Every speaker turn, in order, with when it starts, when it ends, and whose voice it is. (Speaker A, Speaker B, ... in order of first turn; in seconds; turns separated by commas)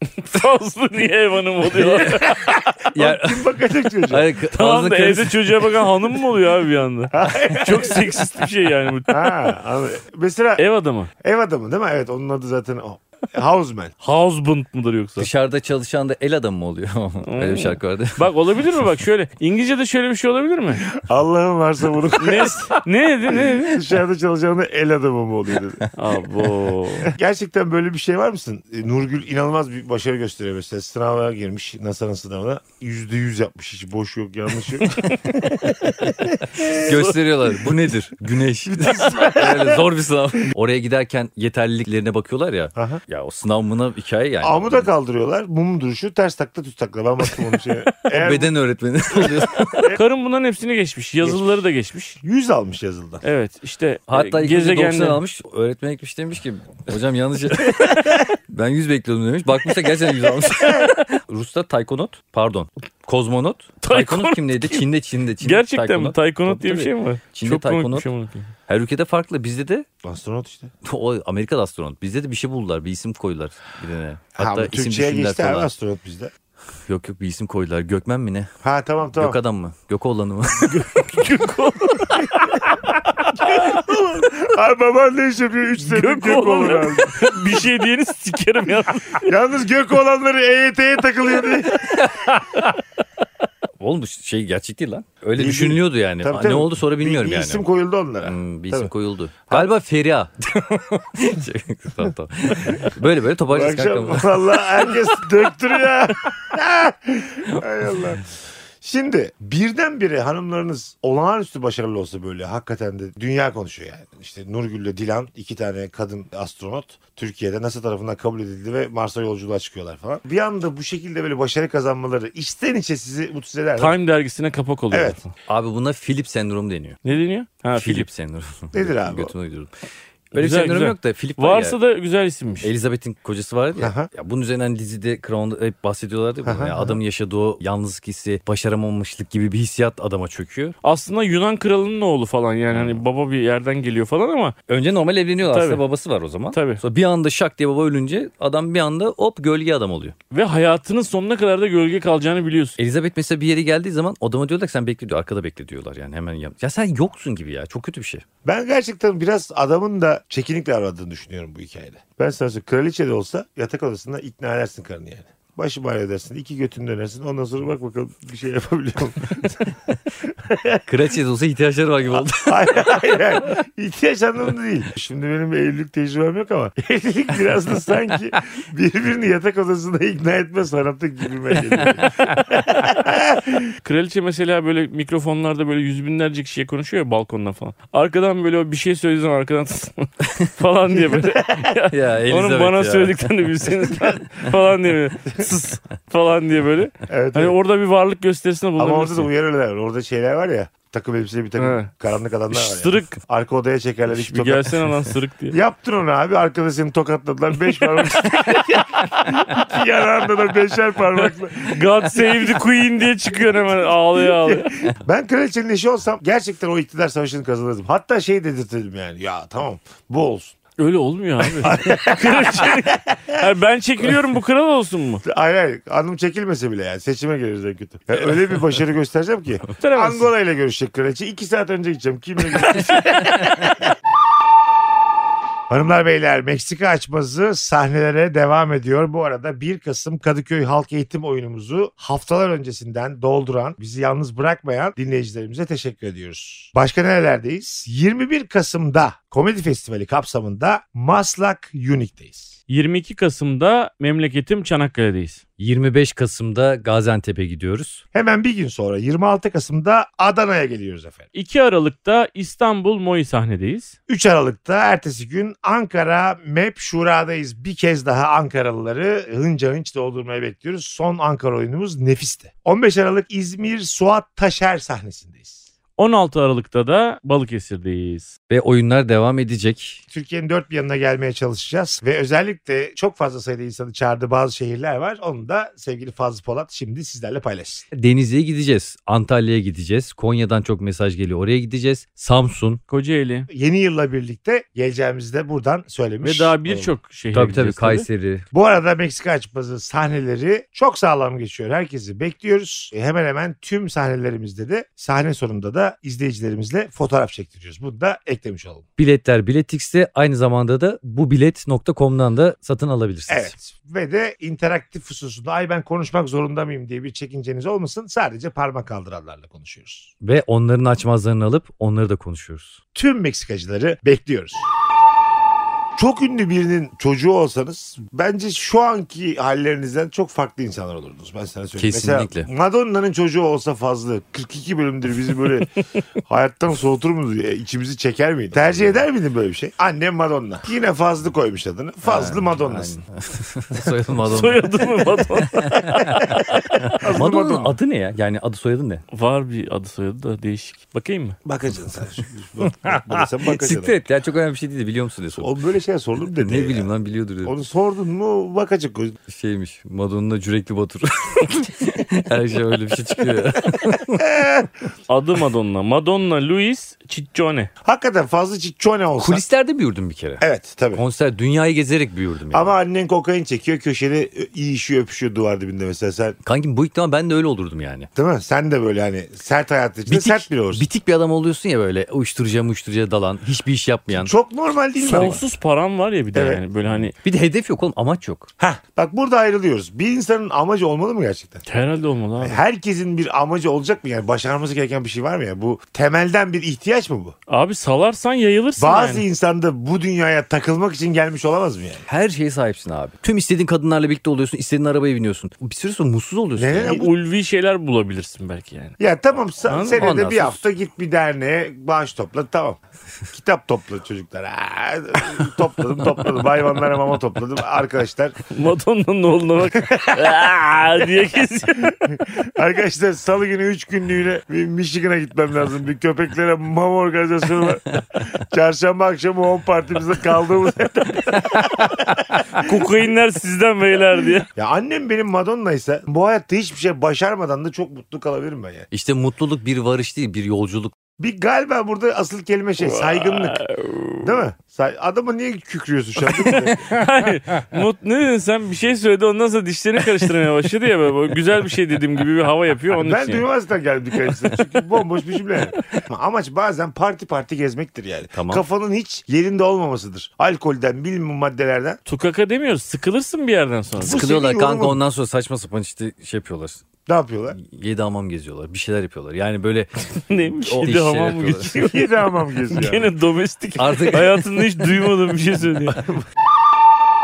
Speaker A: 0.2-2.4, Speaker B: 1.7-4.3, Speaker C: 2.9-5.5, Speaker A: 4.4-9.5, Speaker B: 7.1-8.3, Speaker B: 9.1-10.6, Speaker A: 10.6-11.1, Speaker B: 11.2-13.9, Speaker A: 14.0-15.3, Speaker C: 15.2-18.3, Speaker A: 17.2-20.9, Speaker B: 20.9-22.7, Speaker A: 22.2-23.9, Speaker B: 23.3-25.8, Speaker A: 25.9-27.1, Speaker B: 27.0-37.2, Speaker A: 34.9-35.2, Speaker C: 36.1-44.9, Speaker B: 38.6-39.8, Speaker B: 42.8-43.0, Speaker B: 44.4-48.5, Speaker C: 48.1-49.9, Speaker B: 49.1-50.0, Speaker A: 49.9-52.2, Speaker B: 52.2-53.2, Speaker A: 53.2-55.2, Speaker C: 54.1-68.1, Speaker A: 63.8-64.8, Speaker A: 65.4-68.5, Speaker C: 68.7-69.8, Speaker B: 70.0-70.7, Speaker C: 70.8-75.7, Speaker B: 74.4-76.3, Speaker C: 76.9-78.5, Speaker B: 78.6-79.4, Speaker C: 79.1-80.9, Speaker A: 80.7-82.8, Speaker B: 82.2-82.7, Speaker B: 83.3-87.6, Speaker A: 85.8-89.3, Speaker B: 89.2-92.0, Speaker C: 93.8-97.6, Speaker B: 95.3-98.9, Speaker C: 98.2-104.9, Speaker B: 103.5-108.2, Speaker B: 108.8-124.0, Speaker A: 123.8-125.3, Speaker B: 124.9-125.2, Speaker C: 125.5-127.0, Speaker A: 127.0-128.1, Speaker C: 127.7-129.7, Speaker B: 128.7-129.3, Speaker C: 130.3-131.8, Speaker A: 130.3-132.7, Speaker C: 132.6-140.7, Speaker B: 133.8-134.1, Speaker B: 136.4-137.0, Speaker A: 140.8-144.6, Speaker C: 142.7-143.0, Speaker C: 144.7-150.1, Speaker A: 145.4-145.8, Speaker A: 146.5-146.8, Speaker A: 150.3-152.8, Speaker C: 152.8-158.2, Speaker B: 158.4-170.8, Speaker C: 170.8-172.7, Speaker B: 172.2-183.7, Speaker C: 181.9-182.3, Speaker A: 183.8-199.3, Speaker B: 190.9-191.7, Speaker C: 191.9-193.2, Speaker B: 197.1-197.6, Speaker B: 198.8-204.8, Speaker A: 201.6-201.9, Speaker A: 202.5-203.2, Speaker A: 204.1-205.6, Speaker B: 205.5-212.5, Speaker A: 211.2-214.9, Speaker B: 214.2-220.6, Speaker A: 220.8-225.2, Speaker B: 221.4-223.5, Speaker B: 225.2-233.9, Speaker A: 229.8-230.3, Speaker B: 235.7-252.6, Speaker A: 252.7-255.4, Speaker C: 255.6-258.0, Speaker B: 258.1-261.2, Speaker A: 261.3-263.9, Speaker B: 264.1-275.6, Speaker A: 276.0-278.3, Speaker C: 278.5-280.0, Speaker B: 280.1-287.9, Speaker C: 287.9-292.8, Speaker A: 292.9-293.5, Speaker B: 293.5-296.9, Speaker A: 296.2-298.1, Speaker C: 297.3-298.5, Speaker B: 298.5-308.8, Speaker C: 309.0-313.5, Speaker B: 313.3-320.1, Speaker C: 320.2-322.8, Speaker B: 322.9-324.7, Speaker B: 325.9-335.7, Speaker C: 331.8-332.5, Speaker B: 336.3-343.0, Speaker C: 342.0-344.7, Speaker A: 344.2-347.2, Speaker C: 345.5-349.0, Speaker B: 346.1-347.8, Speaker A: 349.1-351.4, Speaker B: 351.4-354.0, Speaker C: 352.6-355.5, Speaker B: 355.4-356.9, Speaker C: 356.4-357.5, Speaker B: 357.4-359.1, Speaker C: 359.3-364.3, Speaker B: 364.2-364.7, Speaker A: 365.1-367.7, Speaker B: 367.8-369.4, Speaker C: 369.2-372.8, Speaker B: 370.4-371.0, Speaker B: 372.5-376.4, Speaker C: 376.4-378.1, Speaker B: 378.1-380.9, Speaker C: 380.1-384.3, Speaker B: 384.1-385.4, Speaker A: 385.0-387.1, Speaker C: 385.1-385.4, Speaker B: 386.3-386.6, Speaker C: 387.2-388.5, Speaker B: 388.6-391.6, Speaker A: 391.6-392.6, Speaker B: 392.4-397.3, Speaker A: 397.5-399.2, Speaker B: 398.8-402.0, Speaker C: 402.1-407.0, Speaker B: 406.6-407.1, Speaker A: 406.8-408.9, Speaker B: 409.0-412.8, Speaker A: 409.7-410.1, Speaker C: 409.9-410.6, Speaker B: 413.3-418.4, Speaker A: 418.5-421.9, Speaker B: 419.8-420.4, Speaker B: 421.8-432.8, Speaker A: 432.6-434.5, Speaker B: 434.6-438.9, Speaker C: 438.9-440.9, Speaker B: 441.2-443.6, Speaker A: 442.8-444.4, Speaker B: 444.2-446.9, Speaker A: 446.4-453.4, Speaker B: 452.9-462.0, Speaker C: 458.3-458.6, Speaker A: 462.1-464.2, Speaker B: 464.0-465.0, Speaker C: 464.0-466.8, Speaker B: 467.1-467.6, Speaker C: 467.6-469.9, Speaker A: 470.3-476.0, Speaker C: 470.6-471.7, Speaker B: 471.7-473.1, Speaker C: 473.8-474.4, Speaker B: 475.9-476.2